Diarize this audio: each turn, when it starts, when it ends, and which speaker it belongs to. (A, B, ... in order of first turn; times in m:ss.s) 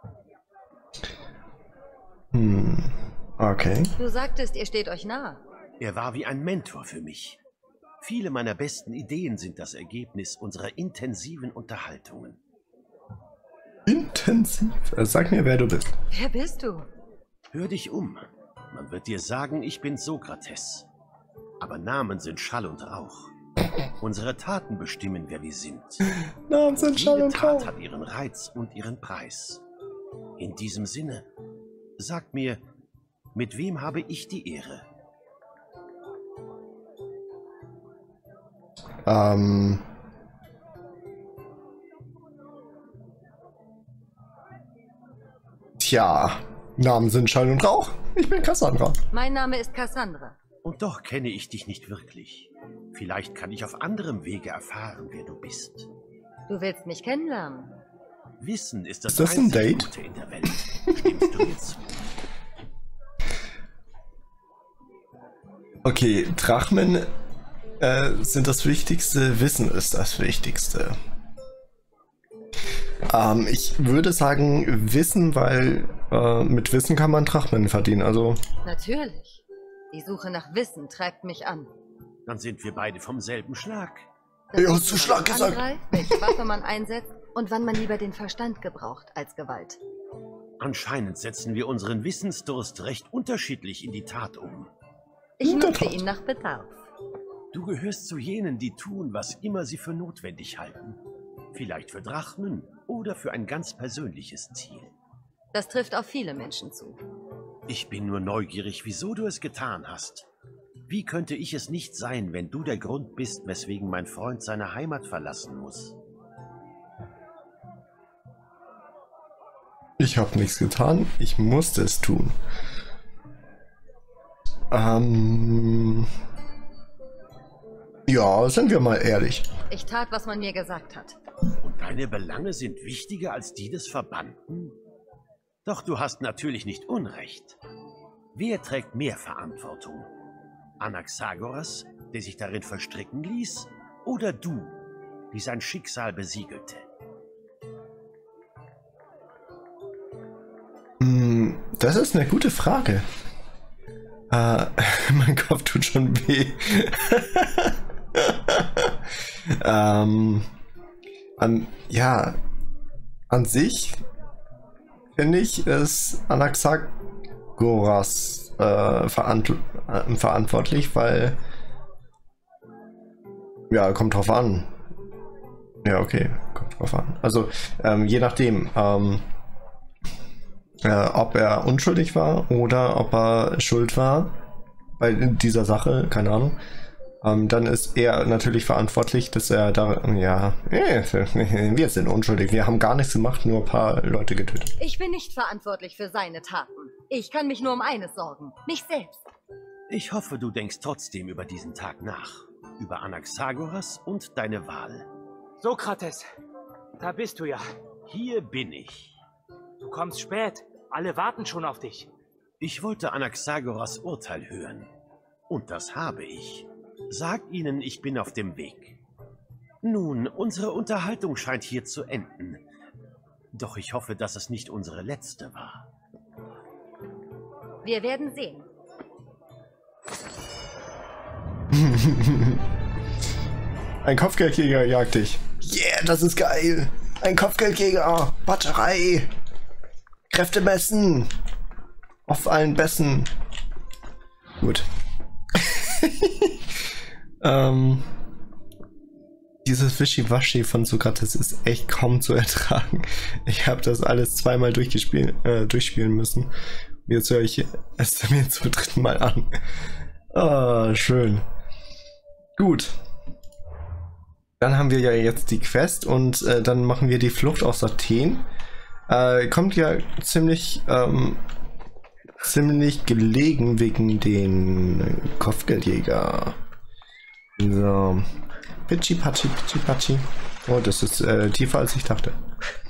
0:02.3-0:03.9 A
0:04.0-0:05.4 B
0:05.8-0:07.4 C
0:08.0-0:12.4 C
0:13.9-0:15.9 A
0:16.1-0:16.9 B
0:17.5-0:20.9 C
0:21.6-0:23.3 C
0:24.0-0:26.2 C
0:26.5-0:27.7 A
0:26.7-0:29.6 C
0:30.4-0:31.2 C
0:32.0-0:32.6 C
0:33.3-0:34.8 C
0:39.0-0:39.8 A
0:45.8-0:49.0 A
0:49.1-0:50.4 B
0:50.6-0:55.9 C
0:56.5-0:57.8 B
0:58.4-1:01.9 C
0:59.1-0:59.9 A
1:05.8-1:07.1 A
1:07.8-1:11.0 A
1:13.1-1:18.4 A
1:18.6-1:21.7 B
1:22.2-1:24.1 C
1:24.5-1:29.8 B
1:24.6-1:26.2 A
1:30.6-1:34.7 C
1:35.4-1:36.8 B
1:35.4-1:36.0 A
1:37.5-1:41.0 C
1:41.5-1:44.9 C
1:45.5-1:47.0 B
1:47.7-1:50.3 C
1:50.9-1:56.0 C
2:00.0-2:02.3 A
2:04.7-2:06.1 A
2:08.1-2:09.5 A
2:09.7-2:11.2 B
2:11.6-2:14.8 C
2:15.6-2:17.6 C
2:18.3-2:20.1 C
2:20.8-2:24.8 C
2:25.3-2:26.8 C
2:31.0-2:33.0 A
2:34.3-2:40.5 A
2:41.4-2:42.4 A
2:43.3-2:44.0 A
2:45.2-2:47.0 A
2:47.5-2:51.4 A
2:53.7-2:54.7 A
2:55.8-2:59.2 A
3:00.8-3:04.4 A
3:05.0-3:06.6 A
3:07.2-3:14.7 A
3:14.8-3:19.2 B
3:19.9-3:25.1 C
3:25.6-3:26.3 D
3:27.0-3:27.6 D
3:28.1-3:29.2 C
3:29.8-3:32.1 D
3:32.6-3:34.9 C
3:35.5-3:39.0 C
3:39.8-3:42.7 C
3:43.5-3:45.9 C
3:47.8-3:48.7 B
3:51.7-3:52.6 A
3:54.0-3:59.3 A
4:00.3-4:01.3 A
4:02.2-4:03.3 A
4:04.6-4:04.9 A
4:05.5-4:06.8 A
4:07.4-4:08.1 A
4:09.6-4:16.5 A
4:17.0-4:19.6 A
4:20.3-4:21.4 A
4:22.6-4:23.0 A
4:24.6-4:28.4 A
4:29.1-4:31.4 A
4:32.4-4:36.6 A
4:37.6-4:38.3 A
4:38.9-4:42.4 A